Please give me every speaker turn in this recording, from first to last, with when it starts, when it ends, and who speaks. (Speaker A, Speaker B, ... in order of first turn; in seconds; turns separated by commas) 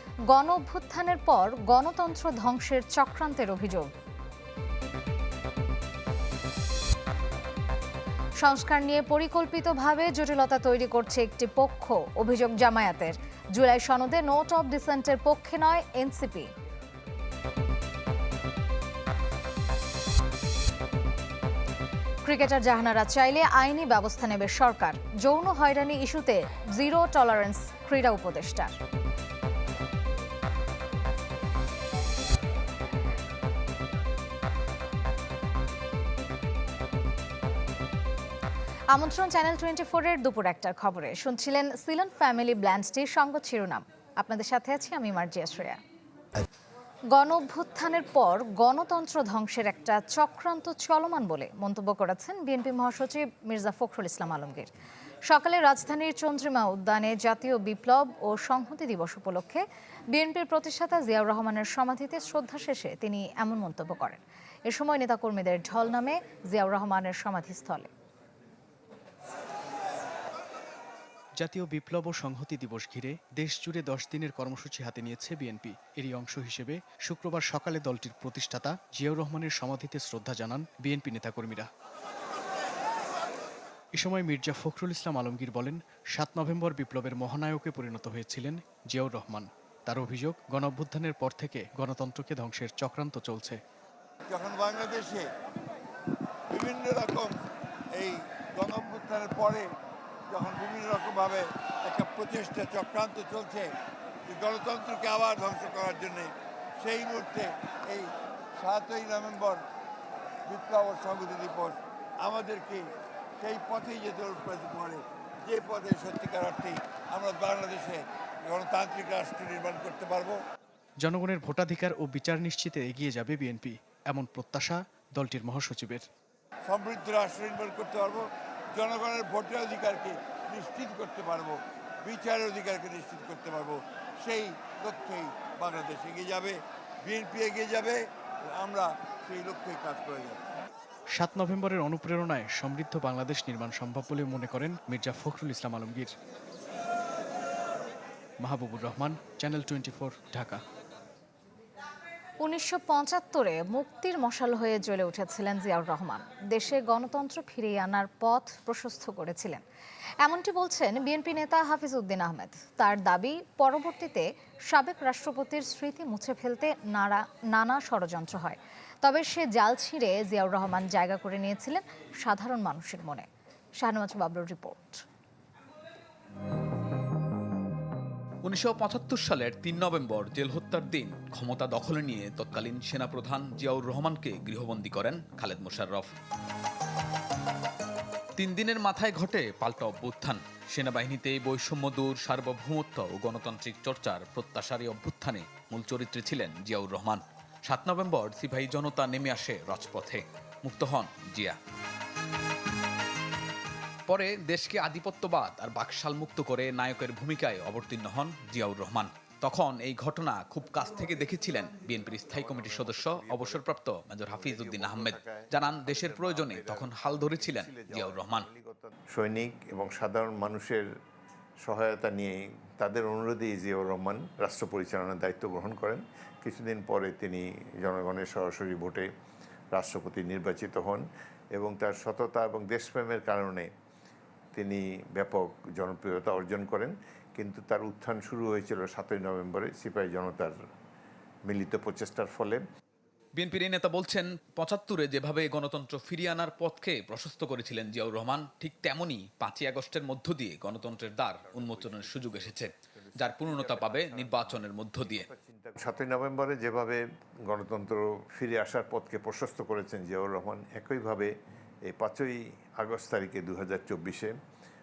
Speaker A: 0.3-3.9, Speaker A: 8.4-16.5, Speaker A: 22.2-28.7, Speaker A: 38.9-45.8, Speaker A: 47.1-54.7, Speaker A: 55.2-67.9, Speaker B: 71.4-81.7, Speaker B: 83.9-93.6, Speaker C: 94.3-95.2, Speaker C: 96.5-97.3, Speaker C: 98.0-99.7, Speaker C: 100.3-103.7, Speaker C: 104.3-109.6, Speaker C: 110.5-112.9, Speaker C: 113.4-120.4, Speaker B: 121.0-126.0, Speaker C: 126.7-140.4, Speaker B: 141.2-146.1, Speaker B: 148.4-150.6, Speaker A: 152.4-159.6, Speaker A: 160.2-173.3, Speaker A: 173.8-175.0, Speaker D: 178.4-186.1, Speaker D: 188.4-201.6, Speaker D: 204.1-218.5, Speaker E: 212.1-213.6, Speaker E: 214.3-220.8, Speaker E: 221.6-229.1, Speaker E: 229.7-231.0, Speaker E: 231.6-233.7, Speaker E: 234.5-240.5, Speaker E: 241.4-242.6, Speaker D: 243.3-255.3, Speaker E: 251.4-261.3, Speaker E: 261.9-264.3